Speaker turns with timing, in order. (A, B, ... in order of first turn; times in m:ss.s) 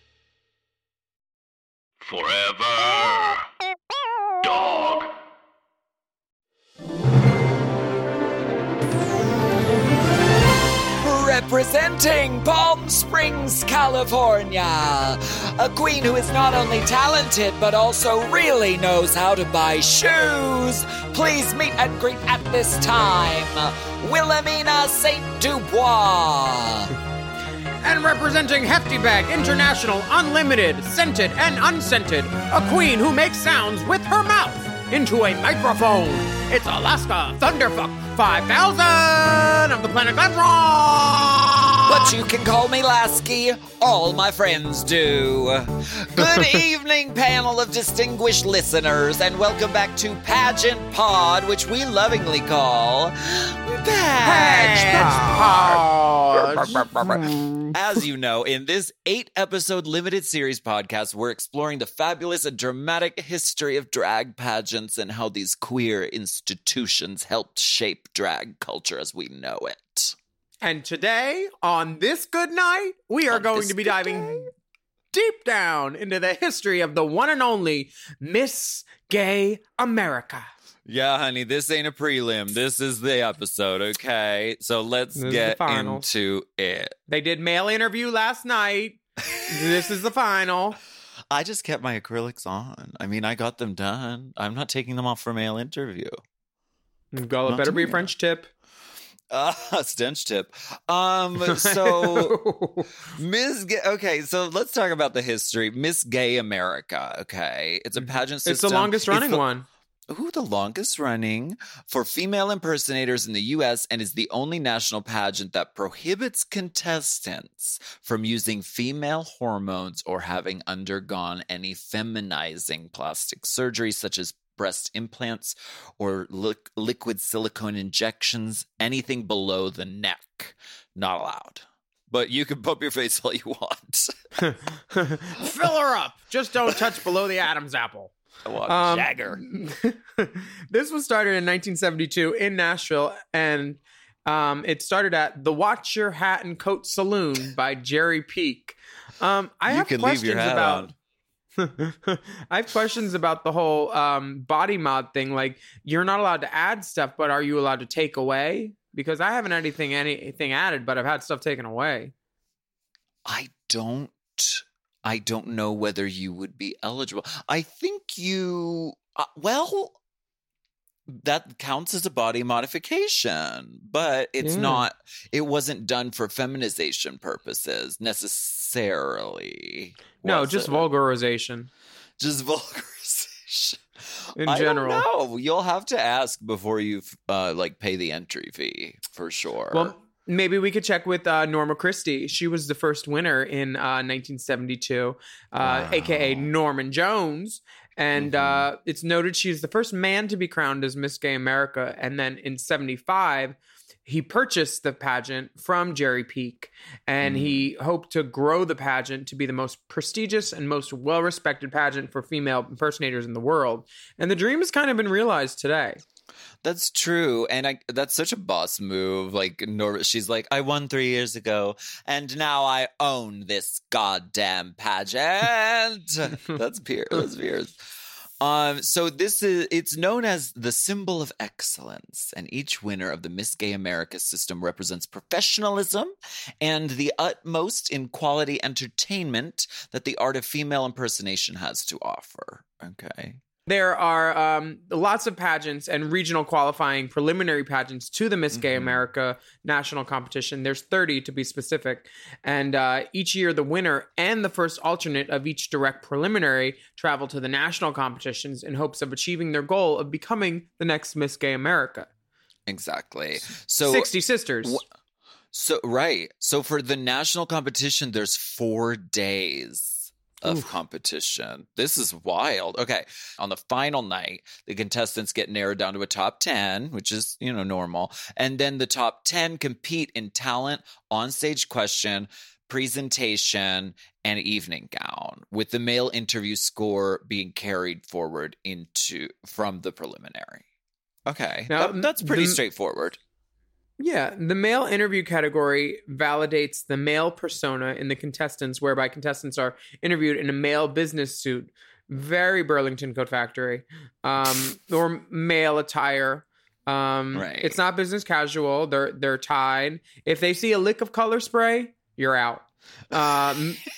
0:02.1-0:03.4 A
0:04.4-0:05.1 A
0:11.0-0:26.9 B
0:27.8-0:42.2 C
0:41.9-1:10.2 B
0:46.2-0:46.6 C
0:54.2-0:58.0 C
1:10.6-1:14.5 C
1:13.3-1:14.5 B
1:15.1-1:20.5 C
1:20.9-1:26.9 B
1:25.2-1:26.0 C
1:27.1-1:30.8 C
1:29.4-1:29.8 B
1:31.3-1:36.2 B
1:37.1-1:38.5 C
1:37.5-1:38.1 B
1:39.3-1:42.4 B
1:41.5-1:42.9 C
1:43.1-1:49.4 B
1:48.5-1:49.7 C
1:50.1-2:14.1 B
2:14.4-2:18.1 C
2:18.4-2:19.4 B
2:18.7-2:30.9 C
2:29.7-2:30.9 B
2:31.6-2:42.1 C
2:43.3-2:50.0 B
2:51.1-3:00.9 B
2:54.4-2:54.8 C
3:00.2-3:01.7 C
3:02.2-3:03.8 B
3:04.4-3:05.0 C
3:04.4-3:09.9 B
3:09.7-3:36.0 C
3:15.6-3:16.5 B
3:18.1-3:18.7 B
3:27.2-3:27.6 B
3:36.6-3:47.7 B
3:48.4-4:03.4 B
4:03.7-4:22.1 C
4:08.5-4:09.0 B
4:22.7-4:24.8 B
4:23.8-4:24.8 C
4:25.5-4:50.6 B
4:30.4-4:30.7 C
4:51.3-4:53.2 B
4:51.7-4:52.6 C
4:54.0-5:13.8 C
5:07.3-5:07.8 B